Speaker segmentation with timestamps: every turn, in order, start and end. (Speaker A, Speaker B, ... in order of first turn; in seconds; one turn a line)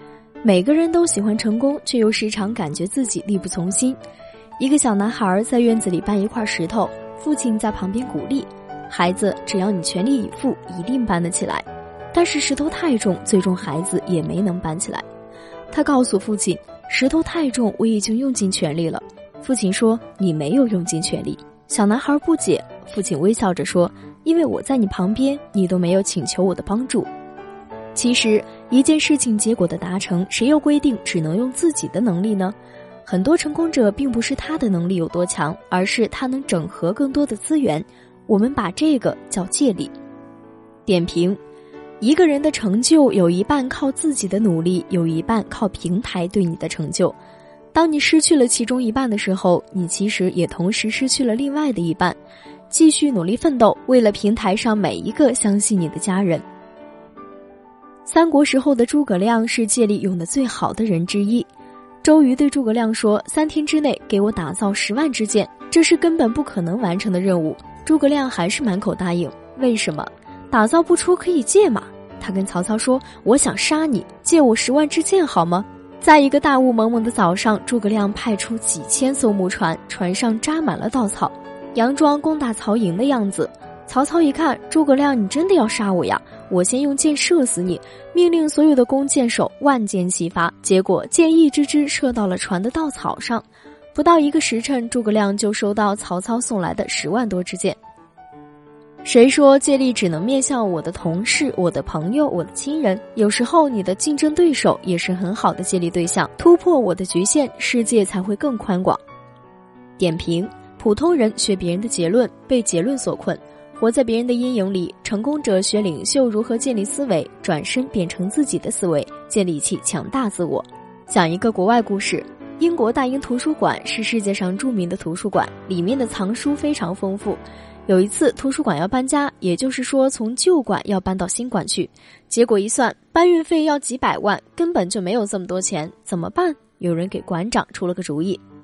Speaker A: 0.4-4.0
Speaker A: 4.6-15.0
Speaker A: 15.7-27.1
Speaker A: 27.9-39.9
Speaker A: 40.9-41.4
Speaker A: 42.0-47.1
Speaker A: 47.7-52.2
Speaker A: 52.7-56.4
Speaker A: 58.0-61.5
Speaker A: 62.0-97.8
Speaker A: 99.0-109.0
Speaker A: 110.0-138.4